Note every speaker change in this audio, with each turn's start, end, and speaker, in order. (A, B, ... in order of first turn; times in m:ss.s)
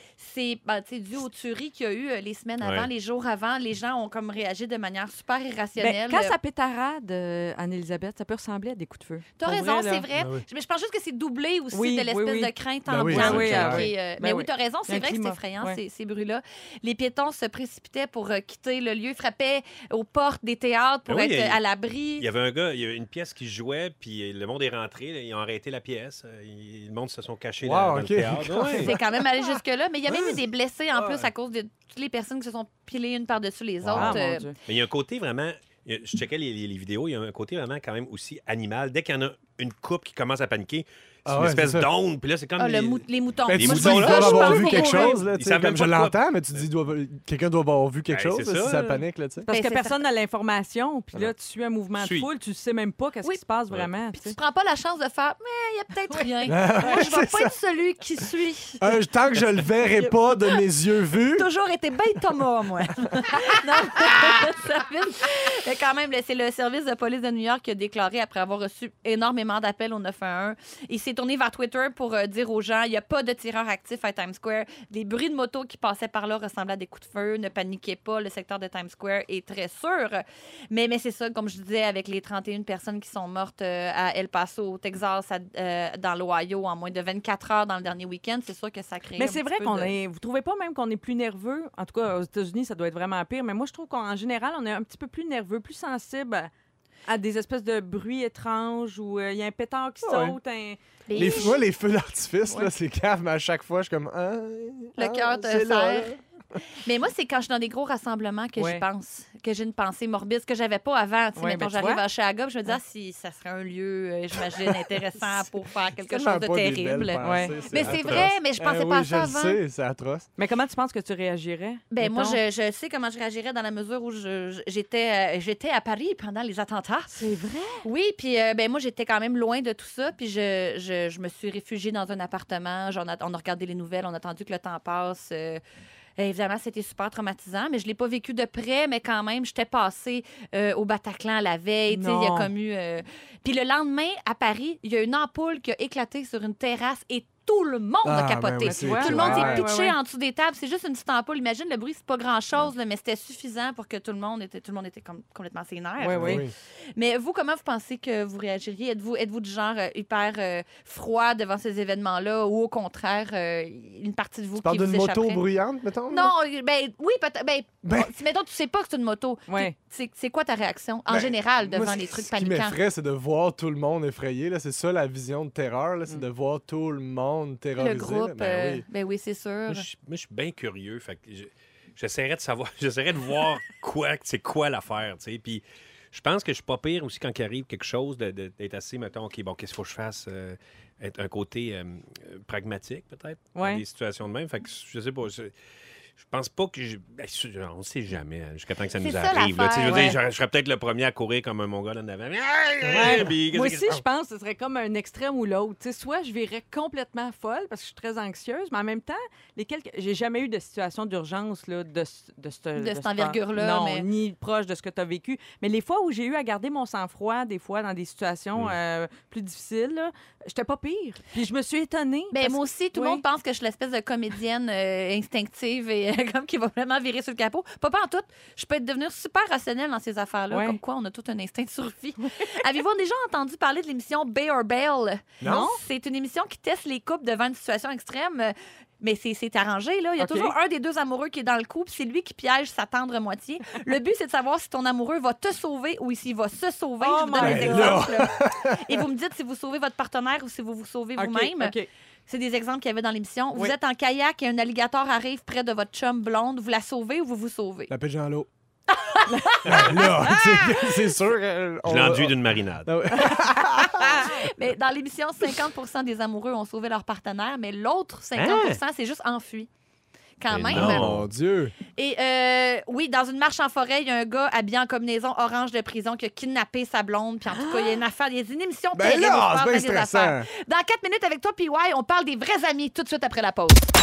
0:00.2-0:06.4 A
0:02.6-0:02.9 B
0:05.8-0:10.0 C
0:09.4-0:22.3 A
0:10.2-0:10.4 D
0:11.7-0:15.8 C
0:12.9-0:13.9 D
0:21.1-0:21.6 B
0:22.2-0:29.0 B
0:27.6-0:29.6 D
0:28.7-0:34.5 A
0:30.1-0:30.4 D
0:33.9-0:34.2 D
0:33.9-0:34.6 C
0:34.6-0:46.2 B
0:41.3-0:41.9 D
0:42.6-0:45.2 A
0:43.5-0:49.5 D
0:48.1-0:49.0 B
0:49.5-0:50.0 A
0:49.5-0:54.4 C
0:52.0-0:52.3 B
0:54.1-0:59.0 A
0:56.5-0:57.5 D
0:58.8-1:01.5 D
1:01.3-1:30.0 A
1:29.2-1:36.5 C
1:37.1-1:41.5 C
1:40.0-1:40.4 D
1:41.1-1:41.6 A
1:41.1-1:46.2 D
1:45.0-1:46.1 A
1:46.8-1:59.6 A
1:48.6-1:48.8 C
1:51.4-1:52.0 C
1:56.0-2:00.3 D
1:57.2-1:57.6 C
2:00.4-2:02.4 C
2:01.9-2:07.2 A
2:07.2-2:07.8 C
2:07.8-2:15.6 A
2:16.2-2:45.4 A
2:21.9-2:22.5 C
2:28.0-2:29.7 D
2:28.6-2:30.0 C
2:36.0-2:36.4 C
2:36.1-2:36.5 D
2:44.6-2:46.3 D
2:46.1-2:52.8 A
2:47.8-2:48.2 D
2:49.5-2:49.7 C
2:51.1-2:58.9 D
2:57.8-2:59.9 A
2:59.7-3:15.5 B
3:13.6-3:13.8 C
3:16.2-3:24.0 B
3:19.0-3:20.2 A
3:19.9-3:20.2 C
3:22.9-3:43.2 C
3:32.8-3:34.1 A
3:42.3-4:11.8 A
3:50.5-3:50.8 C
3:55.4-3:55.7 D
3:55.4-3:55.8 C
4:00.2-4:00.5 C
4:07.0-4:08.1 C
4:07.4-4:09.0 D
4:11.2-4:11.9 C
4:12.3-4:17.9 A
4:17.9-4:18.5 D
4:18.9-4:20.8 A
4:19.3-4:20.2 C
4:19.7-4:24.3 D
4:21.8-4:23.0 B
4:23.8-4:29.7 A
4:28.4-4:28.8 B
4:30.4-4:31.1 A
4:30.5-4:31.3 B
4:30.7-4:31.8 D
4:32.0-4:43.8 A
4:37.5-4:38.0 C
4:38.9-4:40.5 D